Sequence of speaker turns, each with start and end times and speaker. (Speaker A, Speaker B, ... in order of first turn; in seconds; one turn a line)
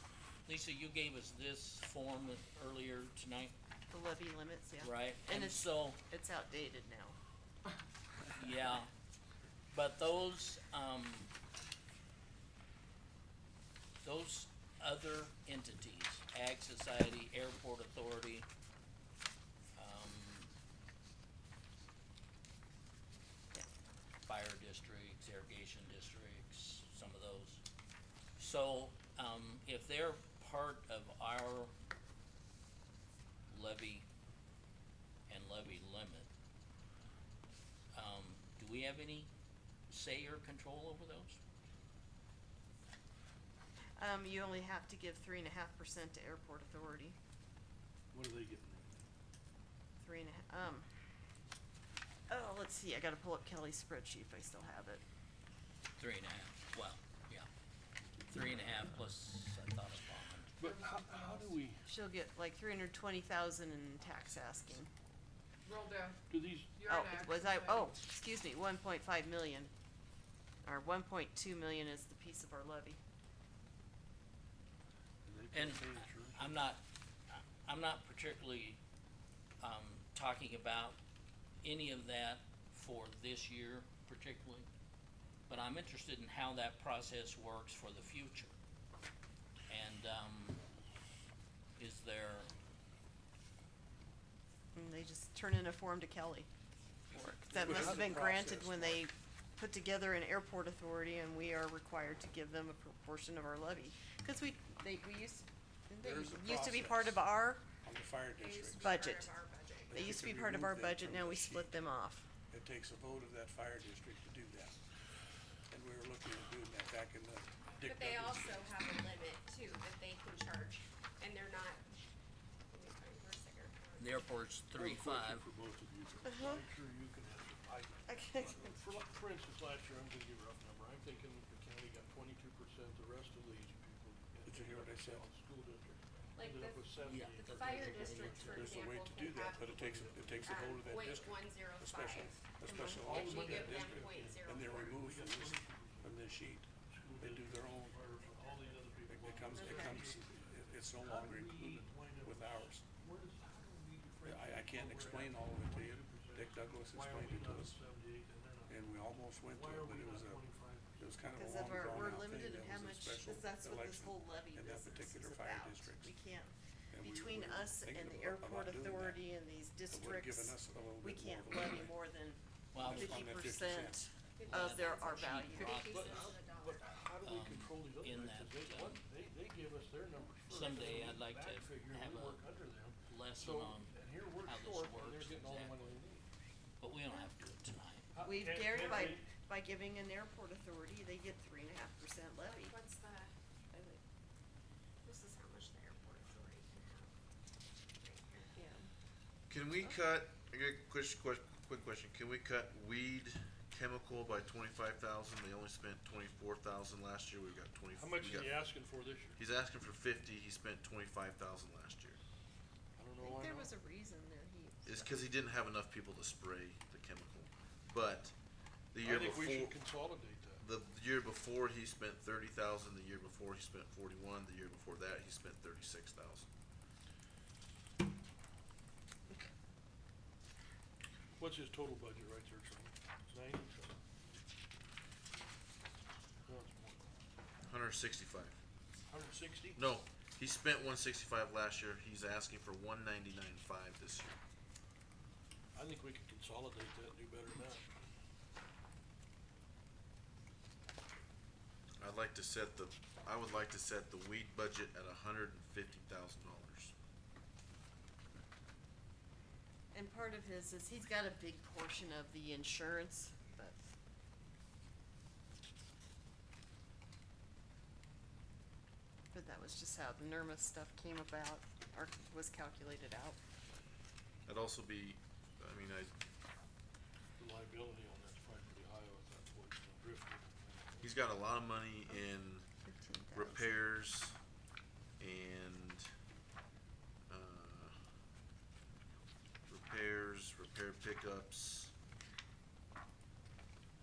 Speaker A: 0.5-3.5
Speaker B: 3.9-7.2
Speaker A: 4.8-6.0
Speaker A: 8.3-8.9
Speaker A: 9.7-11.3
Speaker A: 14.0-18.5
Speaker A: 19.8-20.5
Speaker A: 24.2-27.6
Speaker A: 28.4-31.7
Speaker A: 33.5-34.0
Speaker A: 35.3-36.3
Speaker A: 37.9-39.3
Speaker A: 39.9-41.4
Speaker B: 44.0-47.2
Speaker C: 48.1-48.9
Speaker B: 50.0-50.9
Speaker B: 52.3-55.0
Speaker A: 56.0-57.5
Speaker A: 58.3-60.5
Speaker C: 60.6-61.8
Speaker D: 60.6-61.5
Speaker B: 61.9-64.9
Speaker D: 65.6-66.2
Speaker C: 66.3-66.8
Speaker D: 66.7-67.9
Speaker B: 66.8-69.7
Speaker B: 70.6-73.0
Speaker C: 75.2-76.6
Speaker A: 75.5-78.8
Speaker A: 79.6-81.0
Speaker A: 81.6-84.7
Speaker A: 85.5-88.5
Speaker A: 89.7-90.6
Speaker A: 91.8-92.5
Speaker B: 94.7-96.5
Speaker B: 97.1-107.6
Speaker E: 97.5-99.1
Speaker C: 97.6-98.0
Speaker E: 106.0-109.2
Speaker F: 108.4-110.0
Speaker B: 108.8-109.3
Speaker E: 109.9-111.8
Speaker B: 109.9-112.2
Speaker E: 112.5-114.8
Speaker E: 115.7-118.7
Speaker F: 117.8-122.0
Speaker F: 122.7-124.3
Speaker A: 124.0-125.5
Speaker C: 124.7-138.8
Speaker B: 126.2-126.6
Speaker B: 128.1-128.8
Speaker E: 134.4-135.3
Speaker F: 136.3-136.8
Speaker A: 137.0-138.7
Speaker F: 137.3-139.9
Speaker E: 138.2-148.1
Speaker C: 139.8-140.6
Speaker F: 140.4-142.4
Speaker B: 142.7-143.1
Speaker C: 142.8-146.3
Speaker F: 143.1-144.9
Speaker C: 146.8-161.3
Speaker E: 149.1-152.8
Speaker B: 149.6-150.0
Speaker E: 154.2-157.8
Speaker E: 158.7-166.1
Speaker B: 161.3-175.9
Speaker E: 166.9-169.3
Speaker E: 169.9-171.9
Speaker A: 172.7-173.3
Speaker E: 172.8-174.7
Speaker F: 174.4-176.8
Speaker A: 174.5-176.4
Speaker C: 175.9-186.2
Speaker A: 177.2-179.0
Speaker A: 180.5-182.4
Speaker A: 183.1-186.0
Speaker A: 186.8-188.1
Speaker C: 188.1-189.3
Speaker B: 188.2-192.8
Speaker F: 192.7-193.3
Speaker B: 193.7-194.0
Speaker F: 195.0-197.1
Speaker F: 198.0-198.6
Speaker B: 198.6-198.9
Speaker G: 199.5-208.6
Speaker C: 207.9-209.4
Speaker G: 209.4-212.2
Speaker C: 213.0-213.7
Speaker B: 213.2-215.2
Speaker G: 214.8-218.3
Speaker G: 218.9-219.8
Speaker C: 219.0-220.6
Speaker G: 220.6-226.5
Speaker C: 231.4-233.9
Speaker C: 236.4-237.1
Speaker G: 237.6-238.6
Speaker C: 239.1-239.8
Speaker G: 239.8-244.4
Speaker C: 245.7-248.1
Speaker G: 252.0-256.9
Speaker B: 259.9-263.9
Speaker B: 269.3-273.4
Speaker G: 274.4-276.1
Speaker C: 277.4-281.1
Speaker G: 281.0-282.7
Speaker B: 282.8-283.8
Speaker G: 283.3-284.4
Speaker G: 285.2-286.1
Speaker G: 287.3-288.0
Speaker G: 289.7-291.9